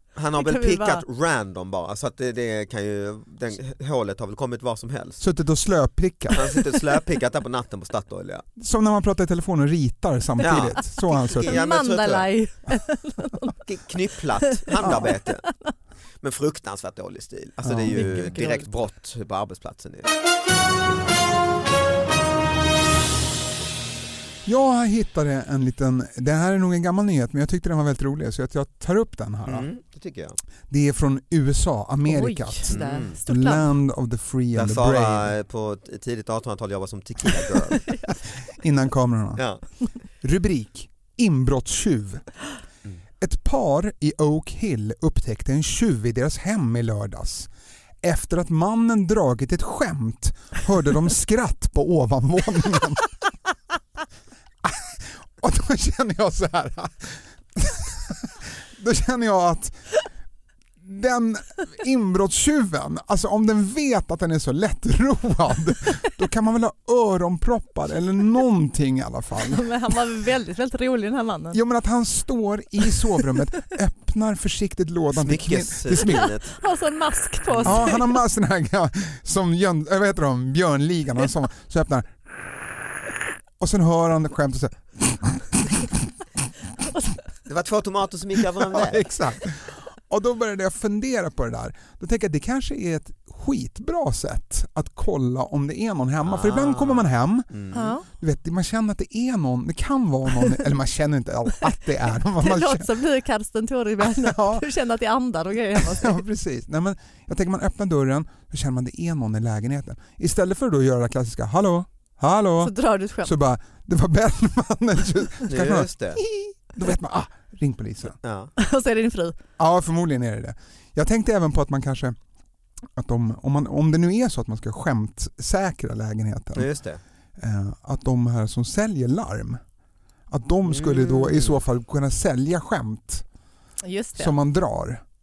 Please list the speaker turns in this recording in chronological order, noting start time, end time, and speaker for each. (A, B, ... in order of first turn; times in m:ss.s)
0:00.1-0:05.2 A
0:00.4-0:01.0 B
0:05.2-0:06.6 C
0:06.4-0:08.5 A
0:08.6-0:11.6 C
0:10.4-0:12.3 A
0:10.9-0:13.5 B
0:13.6-0:15.4 A
0:14.6-0:15.7 B
0:14.8-0:15.1 C
0:16.2-0:20.1 A
0:17.6-0:18.3 C
0:17.9-0:18.7 B
0:24.4-0:29.7 C
0:29.4-0:30.4 A
0:30.7-0:35.3 C
0:32.1-0:33.7 B
0:32.7-0:33.2 A
0:34.5-0:37.9 A
0:38.6-0:39.4 C
0:39.4-0:39.6 A
0:40.2-0:42.2 C
0:43.2-0:47.5 C
0:48.0-0:53.1 C
0:54.6-0:59.8 C
1:00.8-1:09.9 C
1:09.5-1:11.6 B
1:11.5-1:16.3 C
1:15.1-1:16.6 A
1:16.1-1:18.2 B
1:17.5-1:17.8 A
1:17.6-1:22.1 C
1:23.6-1:25.9 C
1:27.4-1:29.1 A
1:28.6-1:37.5 C
1:36.2-1:37.9 A
1:37.7-1:38.0 B
1:38.2-1:42.9 C
1:42.4-1:46.2 B
1:44.0-1:44.6 C
1:45.8-1:58.1 C
1:52.6-1:53.3 B
1:55.5-1:56.2 A
1:58.2-1:58.5 A
1:58.6-1:59.4 B
1:59.6-2:02.2 C
2:03.0-2:06.7 C
2:06.5-2:07.0 A
2:07.4-2:09.6 C
2:10.3-2:13.2 C
2:10.6-2:11.6 A
2:13.8-2:14.3 B
2:14.2-2:15.0 C